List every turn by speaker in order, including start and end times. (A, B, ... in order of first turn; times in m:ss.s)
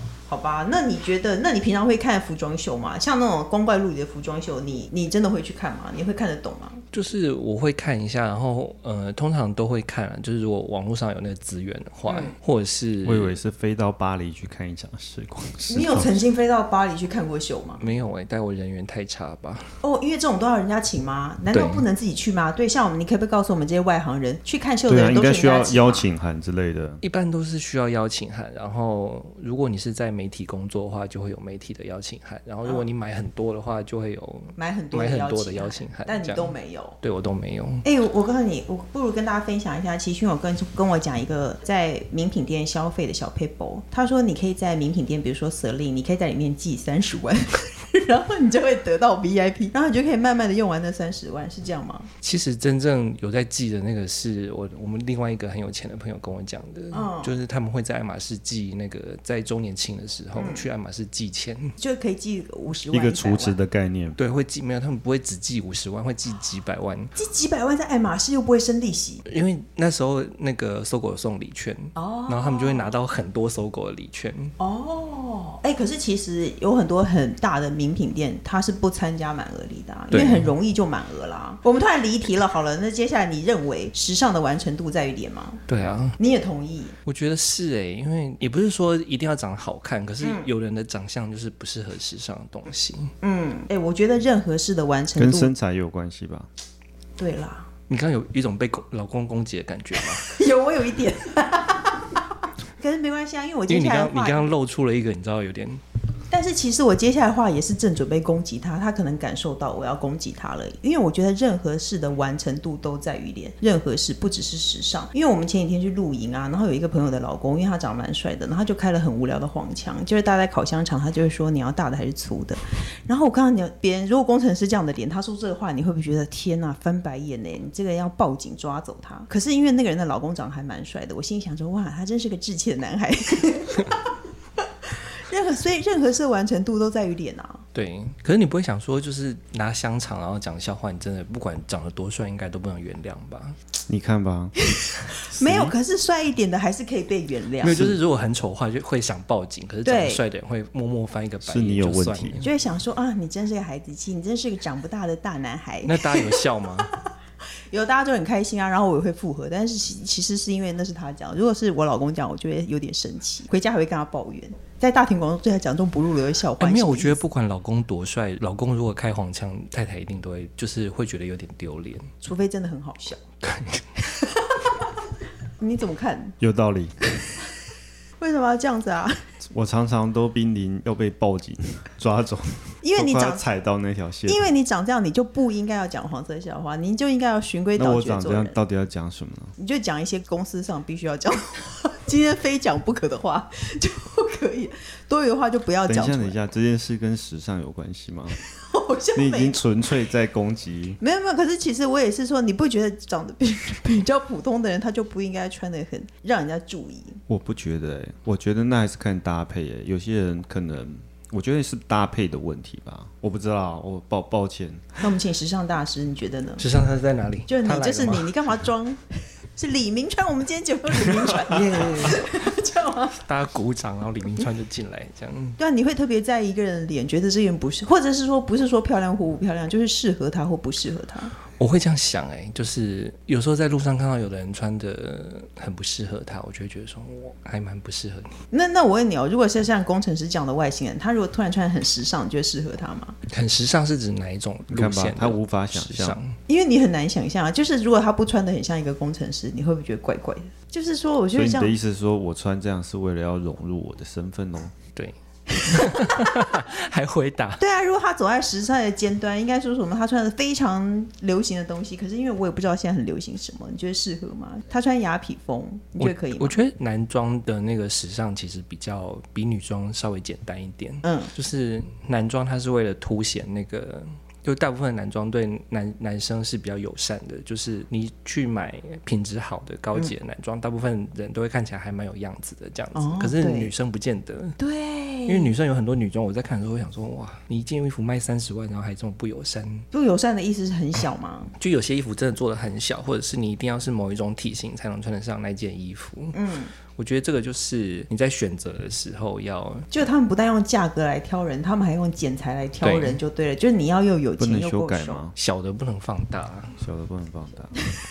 0:00.3-0:06.8 A
0:06.9-0:13.4 B
0:12.1-0:12.3 A
0:13.0-0:16.2 C
0:15.7-0:17.8 A
0:17.8-0:19.7 B
0:19.8-0:26.0 A
0:21.5-0:21.8 B
0:24.9-0:27.0 C
0:27.0-0:37.8 B
0:34.6-0:37.0 A
0:37.8-0:52.1 A
0:52.2-1:01.7 B
0:56.9-0:57.3 A
1:00.4-1:00.7 A
1:01.8-1:03.6 A
1:02.9-1:04.2 C
1:04.2-1:07.1 B
1:07.2-1:09.2 A
1:09.2-1:14.5 B
1:11.9-1:12.9 A
1:14.6-1:25.6 A
1:20.1-1:20.5 B
1:25.7-1:26.2 B
1:26.2-1:27.0 A
1:27.0-1:33.1 B
1:30.2-1:30.5 A
1:33.2-1:35.5 A
1:35.2-1:36.5 C
1:37.2-1:37.7 A
1:37.9-1:40.3 B
1:40.2-1:42.2 A
1:42.8-1:44.5 A
1:43.7-1:45.8 B
1:46.3-2:17.6 A
2:17.7-2:23.6 B
2:23.9-2:24.5 C
2:24.8-2:27.8 A
2:25.4-2:25.7 C
2:27.6-2:32.5 B
2:29.8-2:30.2 A
2:31.4-2:32.4 C
2:32.4-2:37.1 A
2:35.8-2:36.9 B
2:37.7-2:47.2 A
2:46.6-2:52.1 B
2:52.2-2:53.2 A
2:53.4-2:53.8 B
2:54.2-2:54.7 A
2:55.6-2:56.4 A
2:56.4-2:56.9 C
2:58.2-2:59.2 A
2:59.5-3:04.4 C
3:02.8-3:03.4 A
3:04.3-3:08.6 A
3:07.8-3:09.5 C
3:09.6-3:16.4 A
3:15.9-3:18.4 C
3:18.6-3:19.6 A
3:19.1-3:21.0 C
3:21.0-3:27.2 A
3:27.3-3:35.0 C
3:35.0-3:36.6 A
3:36.6-3:38.3 B
3:37.5-3:39.0 A
3:39.6-3:43.2 A
3:41.3-3:42.3 B
3:43.2-3:45.6 B
3:45.6-3:51.3 A
3:51.5-3:58.3 B
3:58.5-4:03.2 A
4:03.3-4:06.4 B
4:04.7-4:06.2 C
4:06.5-4:11.8 A
4:11.3-4:14.7 C
4:15.0-4:17.6 B
4:15.7-4:16.3 A
4:17.6-4:26.6 A
4:26.0-4:44.6 B
4:31.0-4:31.3 A
4:42.9-4:43.7 A
4:44.6-4:45.5 A
4:45.3-4:49.8 B
4:49.9-4:51.5 A
4:51.6-4:56.4 B
4:56.3-4:56.7 A
4:56.9-4:59.9 B
4:59.9-5:05.2 A
5:02.8-5:03.2 B
5:04.4-5:05.4 C
5:05.4-5:06.7 B
5:06.8-5:07.7 C